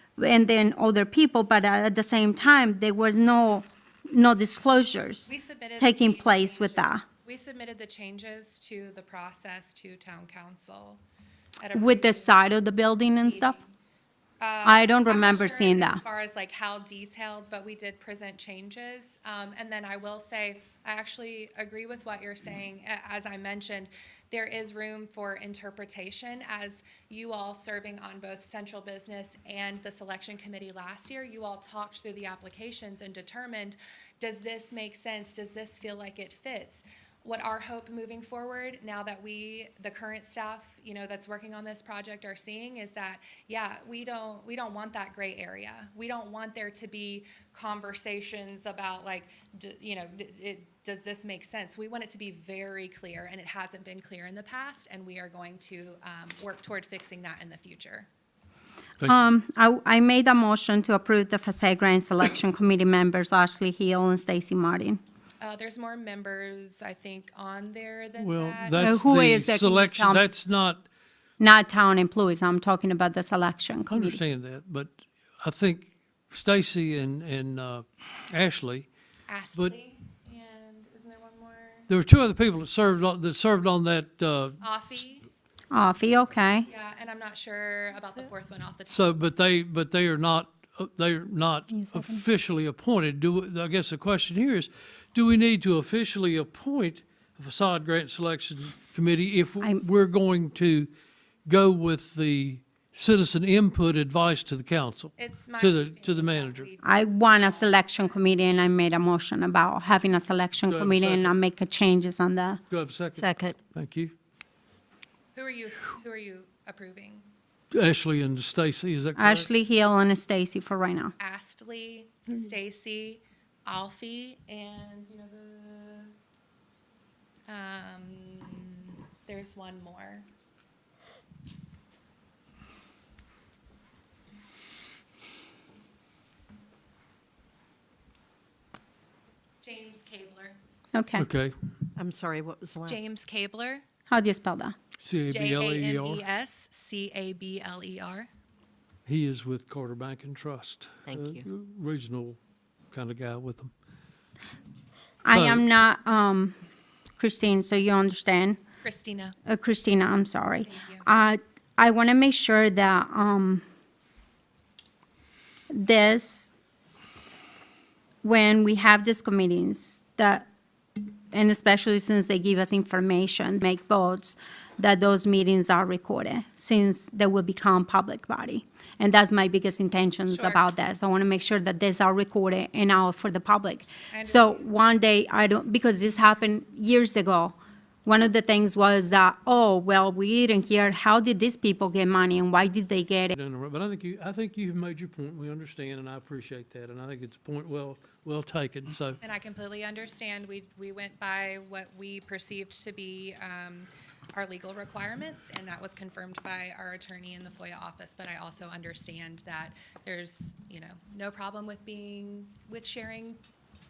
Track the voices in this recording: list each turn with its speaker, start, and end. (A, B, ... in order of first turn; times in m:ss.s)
0:00.2-0:07.0 A
0:05.3-0:11.0 B
0:11.6-0:12.4 B
0:11.7-0:13.6 A
0:13.2-0:13.7 B
0:14.4-0:58.1 B
0:14.6-0:16.0 A
0:59.0-1:05.0 A
1:05.4-1:09.0 B
1:08.2-1:10.8 C
1:08.8-1:10.2 A
1:11.4-1:14.2 A
1:13.9-1:18.9 C
1:19.3-1:21.9 B
1:21.9-1:24.6 C
1:24.6-1:25.3 B
1:25.7-1:26.7 A
1:26.6-1:29.1 B
1:28.9-1:40.9 C
1:31.7-1:32.2 A
1:41.4-1:46.7 C
1:45.2-1:48.6 B
1:46.8-1:52.6 A
1:50.7-1:51.4 C
1:52.7-1:54.1 C
1:53.1-1:53.6 D
1:55.3-1:57.2 B
1:57.7-1:59.5 C
1:59.2-2:01.1 A
2:01.2-2:06.1 B
2:07.5-2:10.2 B
2:19.6-2:20.6 B
2:20.9-2:21.2 A
2:21.2-2:21.5 C
2:22.0-2:23.1 D
2:22.8-2:23.8 B
2:24.1-2:24.7 A
2:25.0-2:26.2 C
2:25.3-2:28.3 B
2:29.0-2:32.4 C
2:31.1-2:31.4 D
2:32.9-2:33.7 C
2:35.2-2:36.6 A
2:35.3-2:35.7 C
2:37.2-2:38.6 A
2:38.8-2:39.3 B
2:39.4-2:43.6 A
2:40.6-2:41.1 B
2:45.7-2:46.5 A
2:48.2-2:50.4 A
2:51.3-3:13.4 A
3:00.3-3:00.6 B
3:04.1-3:04.6 B
3:13.3-3:19.2 C
3:19.2-3:33.4 B